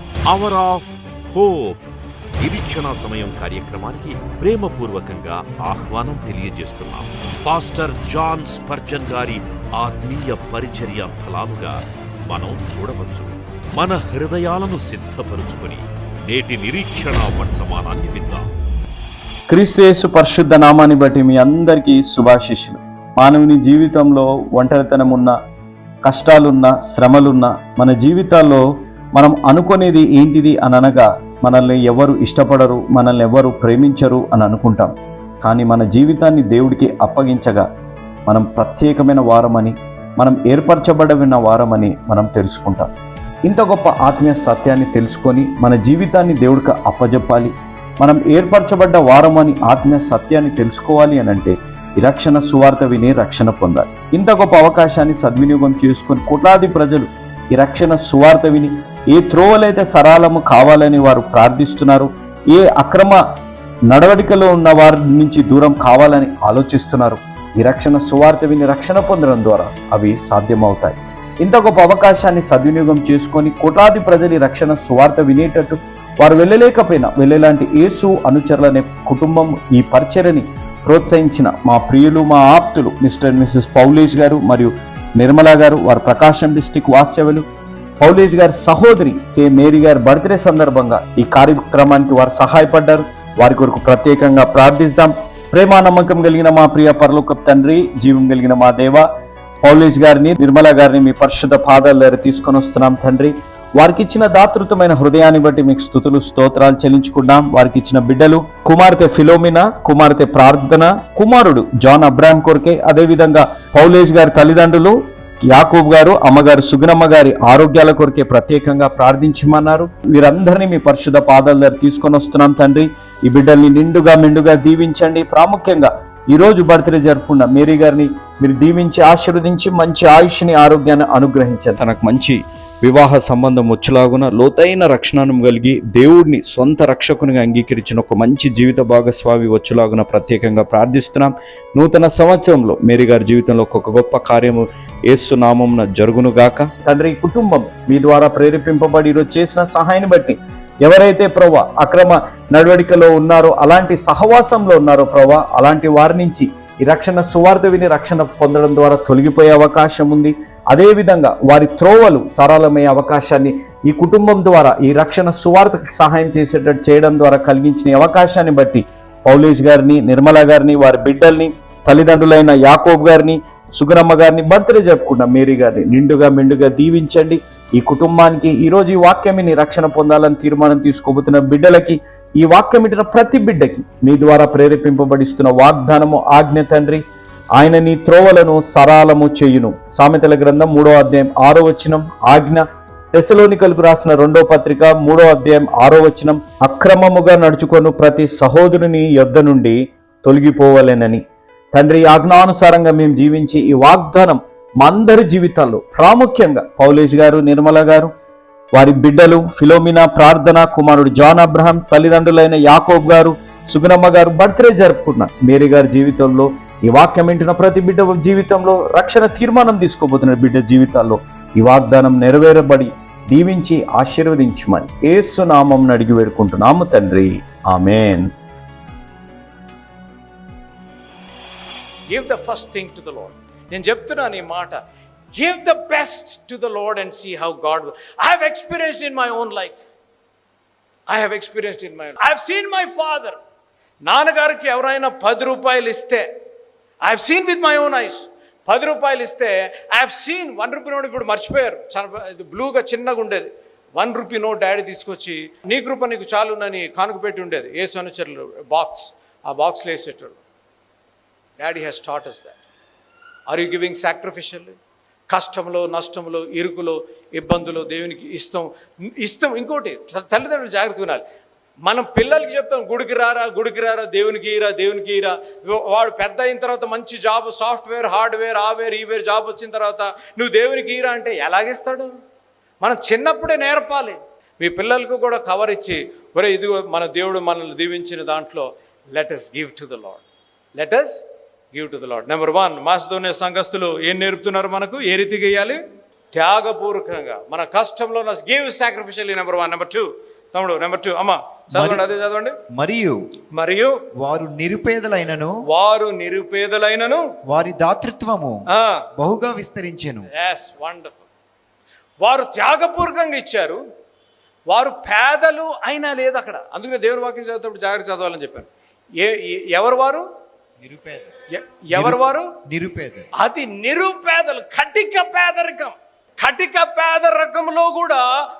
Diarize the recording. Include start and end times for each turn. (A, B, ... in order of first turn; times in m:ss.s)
0:00.3-0:01.8 A
0:02.4-0:18.4 A
0:19.5-0:25.4 B
0:26.0-0:28.6 B
0:29.1-0:34.9 B
0:35.4-0:37.7 B
0:38.3-0:42.9 B
0:43.4-1:03.2 B
1:03.9-1:27.4 B
1:28.0-1:39.1 B
1:39.6-3:07.0 B
3:07.6-3:21.2 B
3:21.7-3:28.1 B
3:28.7-3:48.3 B
3:52.1-3:54.8 C
3:55.3-3:59.8 C
4:01.1-4:03.4 C
4:04.0-4:06.2 C
4:07.0-4:20.4 C
4:21.6-4:22.6 C
4:23.5-4:24.8 C
4:25.3-4:31.2 C
4:31.8-4:42.1 C
4:42.8-4:50.2 C
4:50.8-4:55.8 C
4:56.3-5:02.6 C
5:01.7-5:02.0 D
5:02.7-5:03.2 D
5:03.5-5:04.0 C
5:04.2-5:05.5 D
5:05.6-5:07.2 C
5:07.5-5:08.6 D
5:08.7-5:09.0 C
5:09.2-5:10.3 D
5:10.3-5:11.2 C
5:12.2-5:13.8 C
5:14.7-5:20.2 C
5:20.8-5:21.3 D
5:21.5-5:22.5 C
5:21.9-5:23.2 D
5:23.4-5:28.2 C